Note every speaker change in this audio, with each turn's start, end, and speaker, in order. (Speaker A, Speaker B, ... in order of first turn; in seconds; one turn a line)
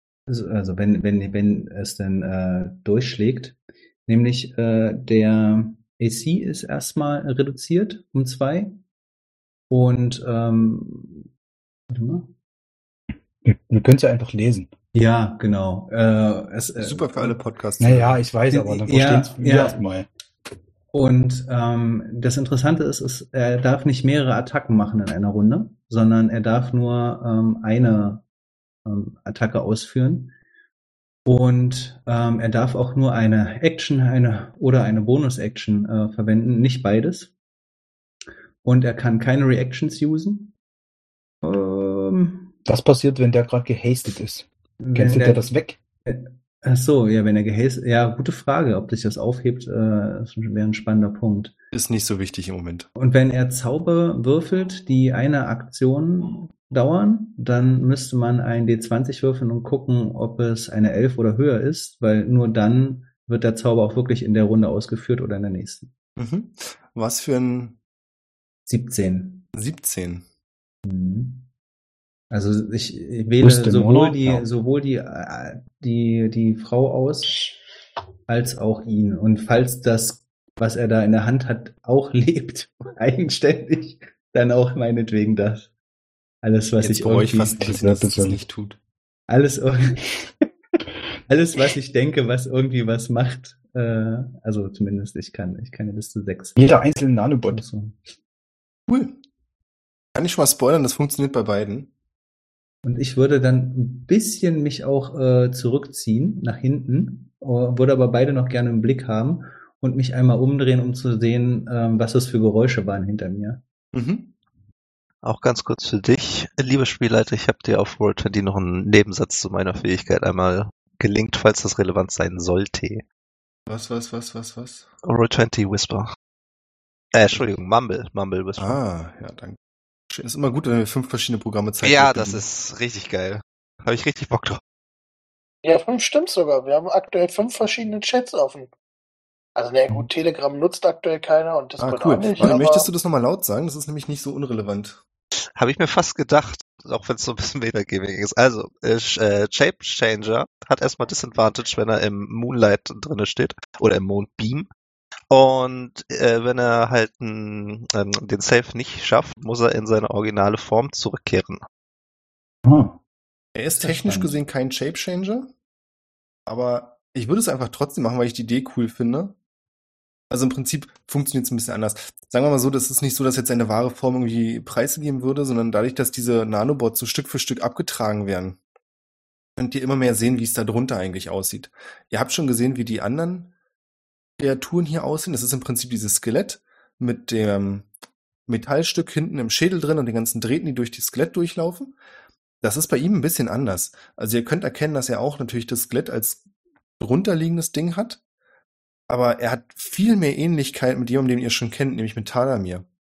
Speaker A: 0.3-8.8
Speaker A: 9.7-11.3
Speaker A: 11.9-12.3
Speaker B: 13.4-14.7
Speaker A: 14.9-17.4
Speaker C: 16.8-18.2
Speaker B: 17.8-20.1
Speaker A: 18.5-19.8
Speaker A: 20.9-28.2
Speaker A: 28.9-30.3
Speaker A: 31.3-37.3
Speaker A: 38.6-40.5
Speaker A: 41.4-42.5
Speaker B: 42.7-45.8
Speaker A: 44.8-45.5
Speaker A: 46.1-51.5
Speaker C: 51.7-52.9
Speaker A: 53.0-65.9
Speaker C: 66.2-67.8
Speaker A: 68.7-69.5
Speaker C: 69.5-70.2
Speaker A: 70.8-71.5
Speaker A: 72.3-77.5
Speaker B: 73.4-74.5
Speaker A: 78.3-85.7
Speaker A: 86.4-87.7
Speaker C: 86.8-88.8
Speaker B: 87.6-88.4
Speaker A: 89.3-90.3
Speaker A: 91.3-96.7
Speaker B: 96.6-97.6
Speaker A: 97.5-98.0
Speaker C: 98.9-99.2
Speaker C: 100.2-101.9
Speaker A: 102.8-113.6
Speaker C: 113.9-114.3
Speaker D: 115.2-123.0
Speaker C: 123.7-124.9
Speaker D: 125.0-126.1
Speaker D: 127.1-128.8
Speaker C: 128.6-129.6
Speaker C: 130.1-132.4
Speaker D: 131.8-134.6
Speaker E: 135.6-138.7
Speaker E: 139.6-142.9
Speaker C: 141.8-145.0
Speaker D: 145.6-154.7
Speaker D: 155.3-161.6
Speaker B: 162.7-163.0
Speaker C: 163.6-165.5
Speaker A: 163.7-164.3
Speaker C: 166.5-169.3
Speaker C: 170.3-178.6
Speaker C: 179.6-183.5
Speaker C: 184.4-187.9
Speaker C: 188.5-191.9
Speaker C: 192.6-196.4
Speaker C: 197.0-198.2
Speaker C: 199.1-202.9